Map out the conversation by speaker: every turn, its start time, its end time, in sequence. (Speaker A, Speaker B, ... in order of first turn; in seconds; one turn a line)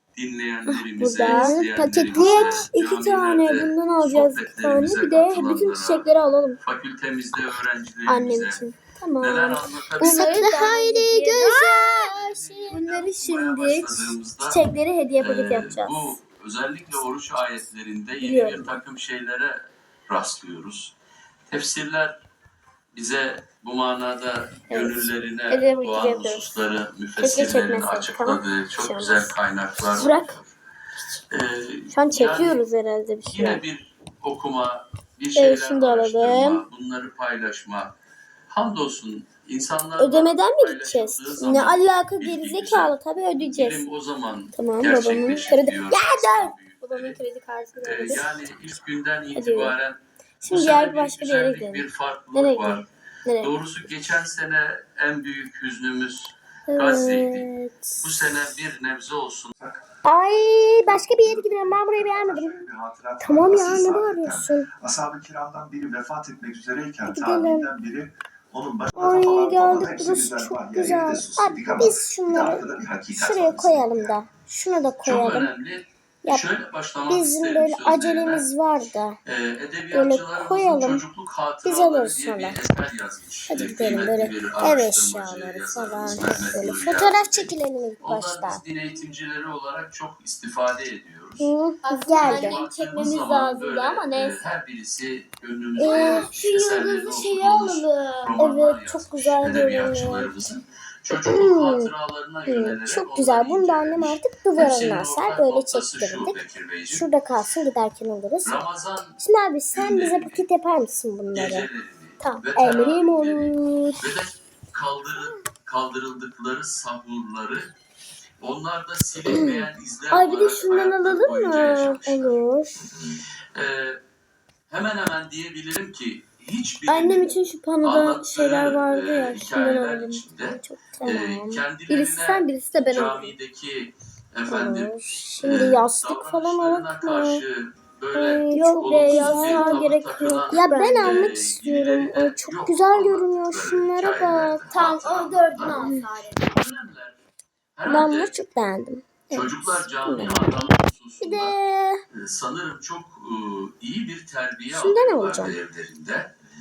Speaker A: 0.1-6.1
Speaker B: 0.7-1.6
Speaker C: 1.2-2.7
Speaker B: 2.1-6.6
Speaker A: 6.6-8.7
Speaker B: 8.1-12.1
Speaker A: 9.2-10.5
Speaker C: 10.0-12.8
Speaker A: 11.9-14.6
Speaker B: 12.7-16.1
Speaker A: 15.2-20.9
Speaker B: 18.2-18.8
Speaker A: 21.5-22.2
Speaker A: 22.9-30.5
Speaker B: 24.7-26.4
Speaker B: 27.2-29.3
Speaker B: 29.9-30.4
Speaker A: 31.3-32.6
Speaker B: 31.9-33.6
Speaker A: 33.3-37.9
Speaker B: 35.4-36.6
Speaker A: 38.5-47.2
Speaker B: 40.0-43.8
Speaker B: 44.5-48.3
Speaker A: 47.8-52.9
Speaker B: 49.4-49.8
Speaker B: 50.4-53.5
Speaker A: 53.4-59.6
Speaker C: 56.7-58.0
Speaker D: 59.6-59.9
Speaker C: 60.0-62.7
Speaker D: 60.9-74.2
Speaker C: 63.2-64.7
Speaker C: 67.1-67.8
Speaker C: 68.9-75.5
Speaker A: 75.0-78.5
Speaker C: 77.1-79.2
Speaker A: 79.2-91.5
Speaker C: 79.9-81.0
Speaker C: 81.6-82.6
Speaker C: 83.5-88.6
Speaker C: 91.4-92.6
Speaker B: 91.8-94.4
Speaker A: 92.2-107.1
Speaker C: 95.8-96.3
Speaker B: 95.8-98.4
Speaker C: 98.4-100.3
Speaker C: 101.1-101.9
Speaker C: 102.5-108.6
Speaker A: 108.5-109.2
Speaker C: 109.2-111.7
Speaker A: 109.7-110.4
Speaker A: 111.3-117.7
Speaker B: 112.2-112.5
Speaker C: 112.6-114.0
Speaker A: 118.4-122.4
Speaker C: 119.3-119.7
Speaker B: 120.1-122.4
Speaker C: 122.1-122.9
Speaker A: 123.5-124.0
Speaker A: 124.7-147.2
Speaker B: 126.9-130.2
Speaker C: 130.6-131.6
Speaker B: 131.9-133.3
Speaker C: 134.5-137.4
Speaker C: 138.1-139.9
Speaker B: 138.5-141.2
Speaker C: 140.5-144.6
Speaker B: 144.7-146.6
Speaker C: 145.8-146.1
Speaker A: 147.8-148.4
Speaker C: 147.9-150.5
Speaker A: 149.3-151.6
Speaker C: 151.2-152.0
Speaker A: 152.1-156.3
Speaker C: 154.7-155.6